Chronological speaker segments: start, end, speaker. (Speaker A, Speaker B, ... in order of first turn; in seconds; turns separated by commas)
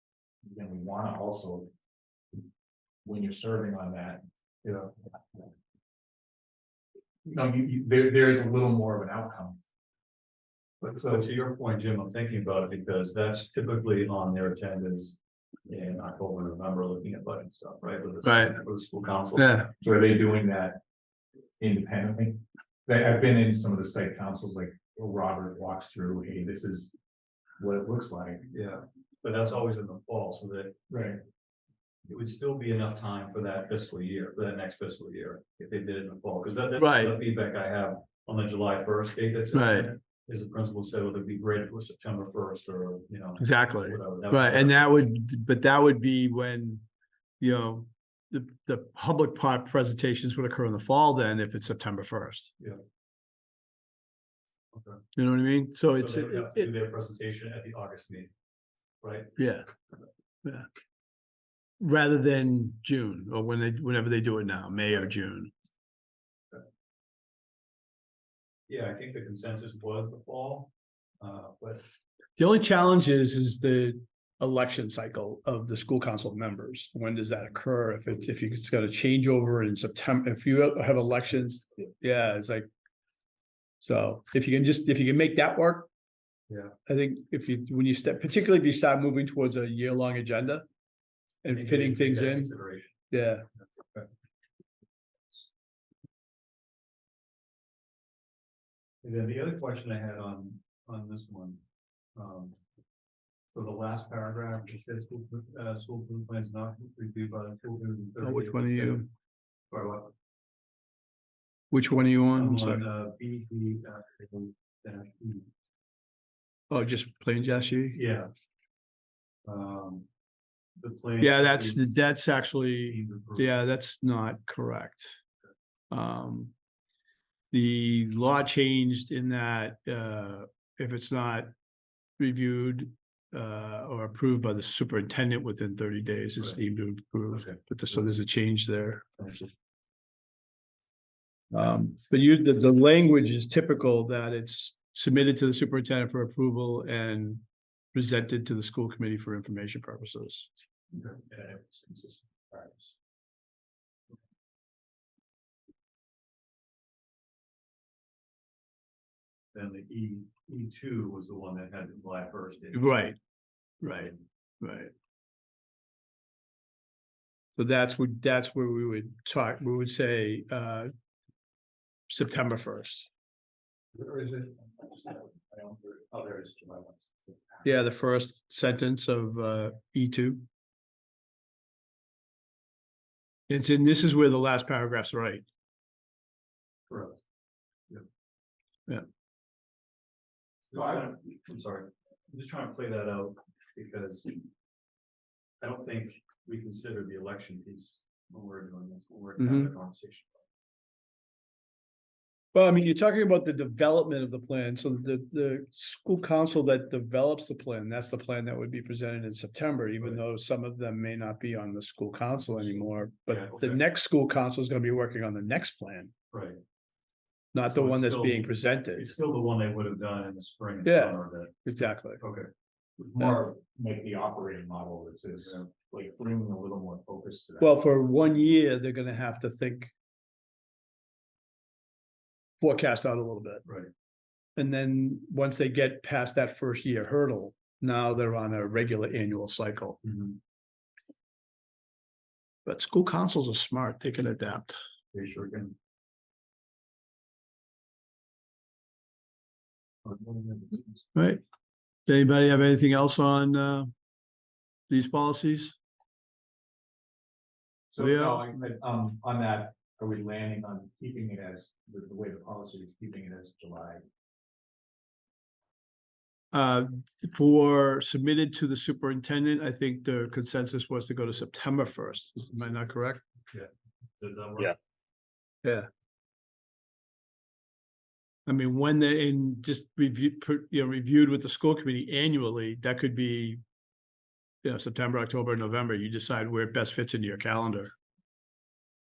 Speaker A: 0.4-1.7, Speaker A: 3.0-4.9, Speaker A: 7.2-9.6, Speaker B: 10.8-19.7, Speaker C: 18.2-18.6, Speaker C: 19.4-19.7, Speaker A: 19.8-20.8, Speaker A: 21.6-26.9, Speaker A: 27.6-28.4, Speaker B: 28.5-30.8, Speaker A: 30.9-31.2, Speaker B: 32.1-45.0, Speaker C: 36.8-37.2, Speaker C: 39.5-39.9, Speaker C: 43.4-46.8, Speaker C: 47.4-52.5, Speaker B: 54.7-55.0, Speaker C: 55.1-56.7, Speaker B: 55.9-58.3, Speaker B: 59.0-59.3, Speaker C: 59.4-59.7, Speaker C: 61.8-65.5, Speaker B: 68.7-71.8, Speaker C: 72.4-82.7, Speaker C: 83.8-85.9, Speaker B: 86.5-86.7, Speaker C: 86.8-90.6, Speaker C: 91.4-92.5, Speaker B: 91.5-93.0, Speaker C: 93.1-93.4, Speaker B: 93.8-94.1, Speaker B: 99.0-101.6, Speaker B: 102.2-102.6, Speaker B: 103.5-109.1, Speaker C: 108.2-109.1, Speaker B: 109.7-110.1, Speaker C: 111.7-112.8, Speaker B: 112.3-115.5, Speaker C: 116.7-118.0, Speaker B: 117.9-118.3, Speaker B: 119.4-120.0, Speaker B: 120.8-121.9, Speaker C: 121.2-125.2, Speaker B: 122.8-123.5, Speaker C: 125.9-126.5, Speaker C: 127.5-131.5, Speaker C: 132.2-139.1, Speaker B: 137.3-137.9, Speaker B: 139.2-139.5, Speaker C: 141.5-150.5, Speaker B: 150.9-151.2, Speaker A: 151.3-152.9, Speaker B: 159.5-162.9, Speaker C: 162.7-163.2, Speaker C: 163.8-164.9, Speaker C: 167.6-170.9, Speaker C: 172.1-173.1, Speaker A: 173.9-177.6, Speaker C: 177.6-180.4, Speaker C: 183.5-185.4, Speaker B: 186.9-187.2, Speaker B: 190.7-194.4, Speaker B: 195.6-200.4, Speaker C: 199.4-199.7, Speaker C: 202.5-216.1, Speaker B: 213.3-213.8, Speaker B: 216.3-216.6, Speaker C: 217.5-219.1, Speaker B: 217.6-222.5, Speaker C: 220.8-222.2, Speaker A: 223.0-227.8, Speaker C: 227.6-229.9, Speaker C: 232.6-233.6, Speaker B: 233.6-233.9, Speaker C: 234.6-240.0, Speaker B: 240.0-240.4, Speaker C: 242.6-244.8, Speaker B: 245.1-245.7, Speaker B: 250.1-251.0, Speaker C: 251.1-251.4, Speaker C: 252.1-253.9, Speaker C: 254.9-255.8, Speaker A: 257.9-264.0, Speaker C: 258.0-258.4, Speaker C: 266.5-273.2, Speaker B: 273.5-274.8, Speaker C: 278.4-283.6, Speaker C: 284.6-287.9